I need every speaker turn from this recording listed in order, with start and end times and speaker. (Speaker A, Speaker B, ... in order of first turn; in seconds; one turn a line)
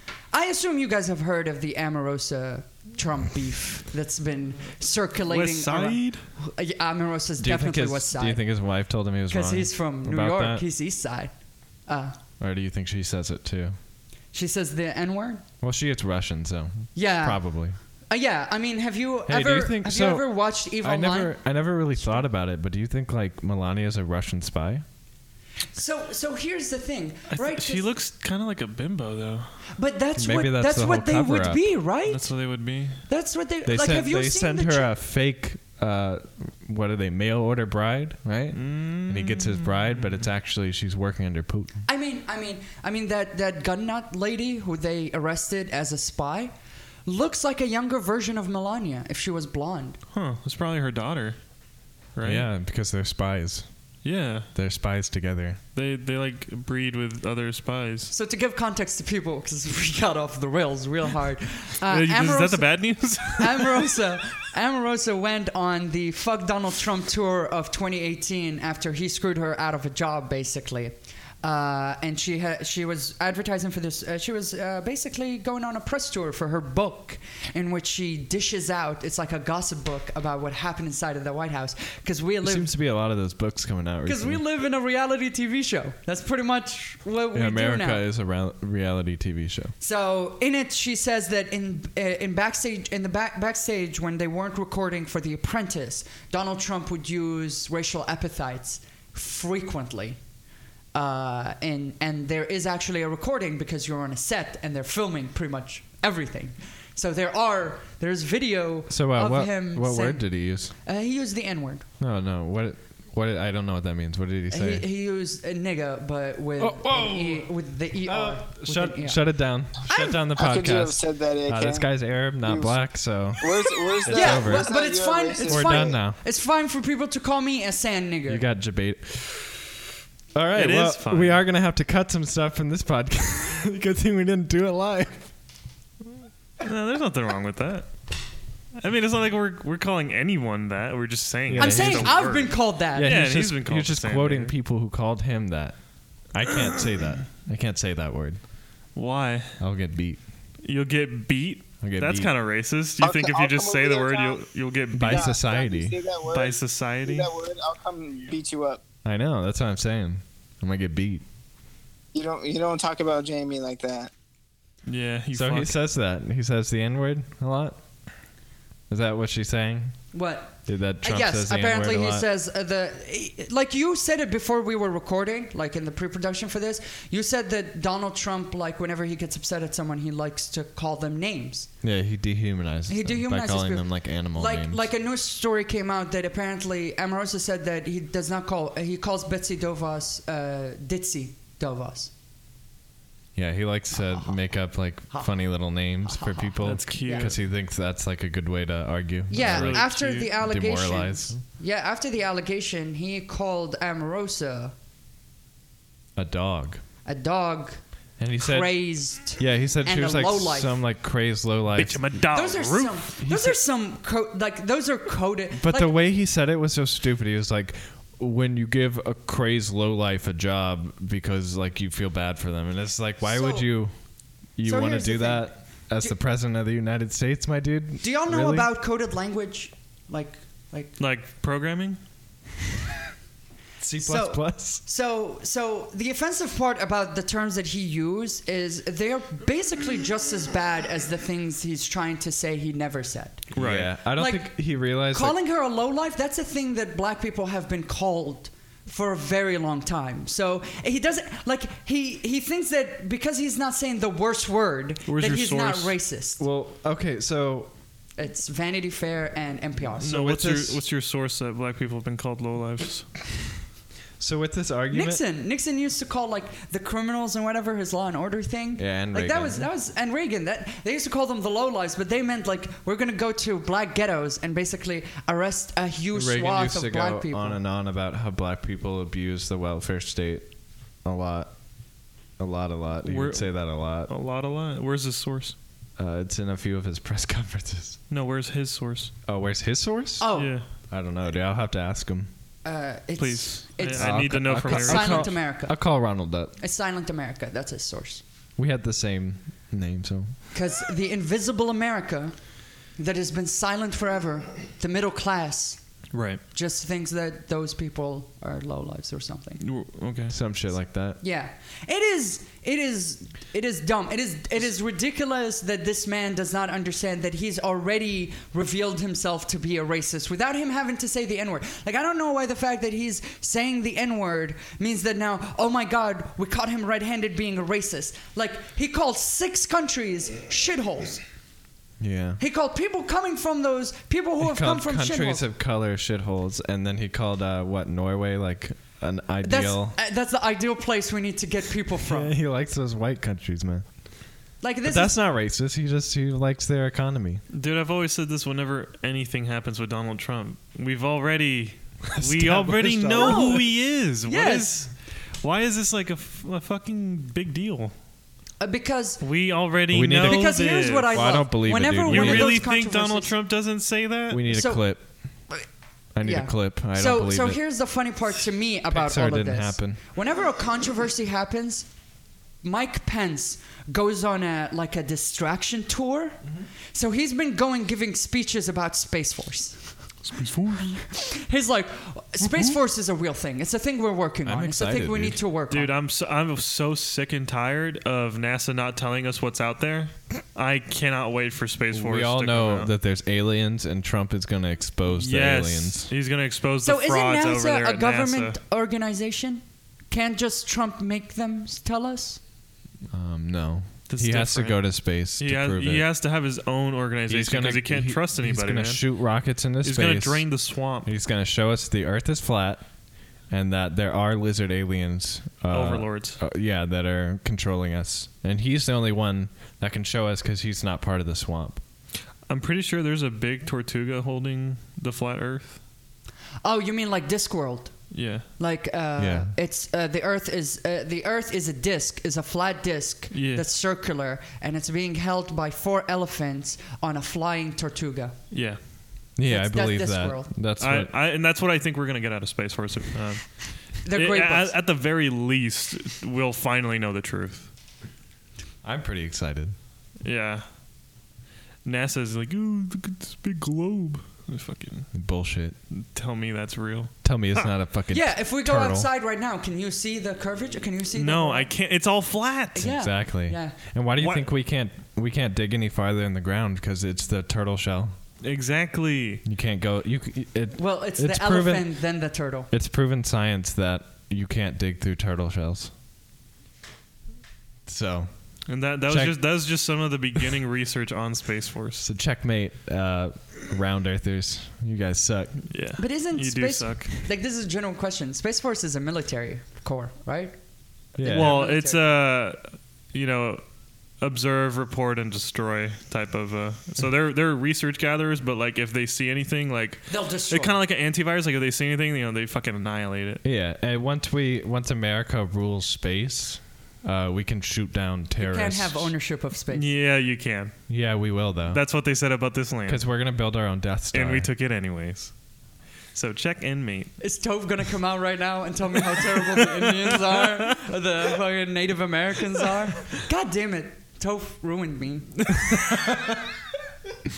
Speaker A: 0.3-8.4
Speaker B: 5.3-6.2
Speaker C: 7.4-10.7
Speaker A: 9.3-11.3
Speaker A: 11.9-12.2
Speaker C: 12.4-13.8
Speaker A: 14.3-15.4
Speaker C: 15.6-17.8
Speaker A: 16.9-17.5
Speaker A: 18.1-21.4
Speaker C: 19.3-24.9
Speaker A: 25.7-27.9
Speaker B: 27.3-29.6
Speaker A: 29.8-32.3
Speaker C: 30.2-31.6
Speaker B: 32.1-33.0
Speaker A: 33.1-34.9
Speaker C: 33.7-41.8
Speaker B: 38.5-40.2
Speaker A: 41.9-46.5
Speaker A: 47.1-50.0
Speaker B: 50.1-51.4
Speaker B: 52.2-52.5
Speaker C: 52.2-53.7
Speaker B: 54.0-54.5
Speaker C: 54.5-55.6
Speaker B: 55.8-58.1
Speaker A: 58.1-82.7
Speaker B: 61.9-64.0
Speaker C: 82.4-84.4
Speaker A: 84.0-88.0
Speaker C: 87.3-89.7
Speaker A: 89.8-100.2
Speaker A: 100.9-111.9
Speaker C: 108.9-110.7
Speaker C: 112.0-114.8
Speaker A: 114.5-120.2
Speaker C: 116.6-117.5
Speaker C: 118.0-123.5
Speaker D: 120.4-122.8
Speaker D: 123.4-126.0
Speaker C: 124.0-124.7
Speaker A: 124.1-128.4
Speaker C: 125.5-126.2
Speaker C: 128.3-129.6
Speaker C: 130.3-135.3
Speaker B: 130.6-131.4
Speaker B: 136.6-137.9
Speaker B: 138.8-144.5
Speaker C: 141.5-142.2
Speaker A: 141.6-143.2
Speaker C: 142.9-145.8
Speaker C: 146.3-148.4
Speaker B: 148.9-149.6
Speaker C: 149.6-150.2
Speaker B: 150.6-155.4
Speaker C: 151.8-152.3
Speaker D: 153.0-154.4
Speaker C: 154.9-155.9
Speaker D: 155.0-158.8
Speaker B: 156.3-157.3
Speaker C: 159.1-161.2
Speaker D: 162.1-164.1
Speaker B: 164.9-165.8
Speaker C: 165.3-167.8
Speaker C: 168.9-170.0
Speaker A: 170.1-181.7
Speaker C: 170.7-172.3
Speaker C: 181.8-184.8
Speaker A: 182.9-192.1
Speaker C: 193.4-201.4
Speaker A: 194.1-194.3
Speaker A: 196.1-197.3
Speaker B: 196.6-197.4
Speaker A: 199.3-204.7
Speaker B: 199.4-200.3
Speaker C: 206.2-206.8
Speaker A: 207.1-207.8
Speaker C: 208.2-212.1
Speaker A: 208.4-210.8
Speaker B: 211.8-213.0
Speaker A: 212.3-215.9
Speaker C: 213.2-213.6
Speaker C: 215.6-223.9
Speaker A: 223.2-223.7
Speaker C: 224.6-228.7
Speaker A: 224.7-225.5
Speaker A: 228.0-231.0
Speaker B: 231.0-232.0
Speaker C: 233.8-234.8
Speaker A: 234.0-243.5
Speaker C: 243.5-245.4
Speaker B: 243.6-243.9
Speaker A: 244.2-256.4
Speaker B: 255.1-255.9
Speaker C: 256.4-257.7
Speaker A: 258.2-260.2
Speaker B: 260.0-263.1
Speaker C: 260.1-260.8
Speaker C: 264.2-265.2
Speaker A: 264.9-277.6
Speaker C: 268.8-269.7
Speaker C: 276.1-280.5
Speaker C: 281.0-281.5
Speaker C: 282.4-284.1
Speaker B: 283.1-285.6
Speaker C: 286.0-288.0
Speaker B: 288.1-289.1
Speaker C: 289.3-290.3
Speaker A: 290.2-290.6
Speaker B: 290.4-290.7
Speaker C: 290.8-292.3
Speaker A: 292.6-295.8
Speaker B: 293.2-295.3
Speaker C: 293.9-296.5
Speaker A: 296.6-298.2
Speaker C: 298.6-300.3
Speaker A: 300.5-302.4
Speaker A: 303.0-305.8
Speaker B: 306.1-306.4
Speaker A: 306.5-309.6
Speaker B: 309.6-310.3
Speaker C: 310.3-311.2
Speaker A: 311.2-331.2
Speaker C: 332.0-332.4
Speaker A: 332.4-335.4
Speaker C: 334.4-340.0
Speaker A: 339.4-342.3
Speaker C: 342.0-343.9
Speaker A: 344.6-345.1
Speaker C: 344.9-347.4
Speaker B: 347.5-354.9
Speaker C: 352.1-353.7
Speaker A: 353.2-353.7
Speaker A: 354.3-354.7
Speaker B: 355.4-357.9
Speaker A: 358.6-359.2
Speaker B: 359.2-361.1
Speaker C: 359.9-360.5
Speaker A: 360.2-363.3
Speaker C: 361.1-362.6
Speaker B: 362.1-364.4
Speaker C: 364.3-365.1
Speaker A: 364.5-364.9
Speaker C: 366.1-367.6
Speaker A: 366.2-371.9
Speaker C: 368.9-370.0
Speaker A: 372.6-376.4
Speaker A: 376.9-379.9
Speaker B: 380.3-380.9
Speaker A: 380.9-385.9
Speaker C: 384.4-385.4
Speaker B: 385.7-392.9
Speaker C: 391.9-396.1
Speaker B: 395.1-398.6
Speaker A: 396.8-402.4
Speaker C: 403.1-406.1
Speaker B: 404.1-404.9
Speaker B: 405.4-409.1
Speaker C: 407.3-410.5
Speaker B: 409.8-411.1
Speaker C: 411.0-412.9
Speaker C: 413.5-421.8
Speaker B: 415.7-416.4
Speaker B: 422.5-425.8
Speaker A: 426.6-438.4
Speaker B: 428.1-428.5
Speaker C: 429.2-429.5
Speaker B: 433.3-433.6
Speaker B: 438.5-438.8
Speaker C: 439.4-441.1
Speaker A: 439.5-440.5
Speaker B: 440.8-447.7
Speaker A: 444.1-444.8
Speaker C: 448.8-449.8
Speaker B: 450.2-450.6
Speaker B: 451.9-455.1
Speaker C: 455.1-455.8
Speaker B: 455.9-457.7
Speaker C: 457.2-459.1
Speaker A: 458.1-461.7
Speaker B: 461.1-462.9
Speaker A: 462.8-463.8
Speaker C: 462.8-468.1
Speaker B: 464.2-464.5
Speaker B: 468.4-469.4
Speaker C: 469.4-472.1
Speaker A: 470.8-472.7
Speaker C: 472.7-475.9
Speaker C: 477.9-478.3
Speaker B: 478.7-482.1
Speaker C: 479.1-479.4
Speaker C: 482.0-485.6
Speaker B: 485.7-487.2
Speaker A: 486.0-490.6
Speaker C: 491.2-491.6
Speaker B: 491.2-492.6
Speaker A: 491.3-492.1
Speaker B: 493.1-493.6
Speaker B: 494.2-503.4
Speaker A: 500.1-500.8
Speaker C: 503.4-509.1
Speaker A: 508.4-509.9
Speaker B: 509.7-510.8
Speaker C: 510.9-511.8
Speaker B: 511.7-513.0
Speaker C: 512.9-514.5
Speaker B: 514.1-515.3
Speaker B: 516.1-517.1
Speaker A: 517.2-525.5
Speaker B: 519.5-520.6
Speaker C: 525.9-526.4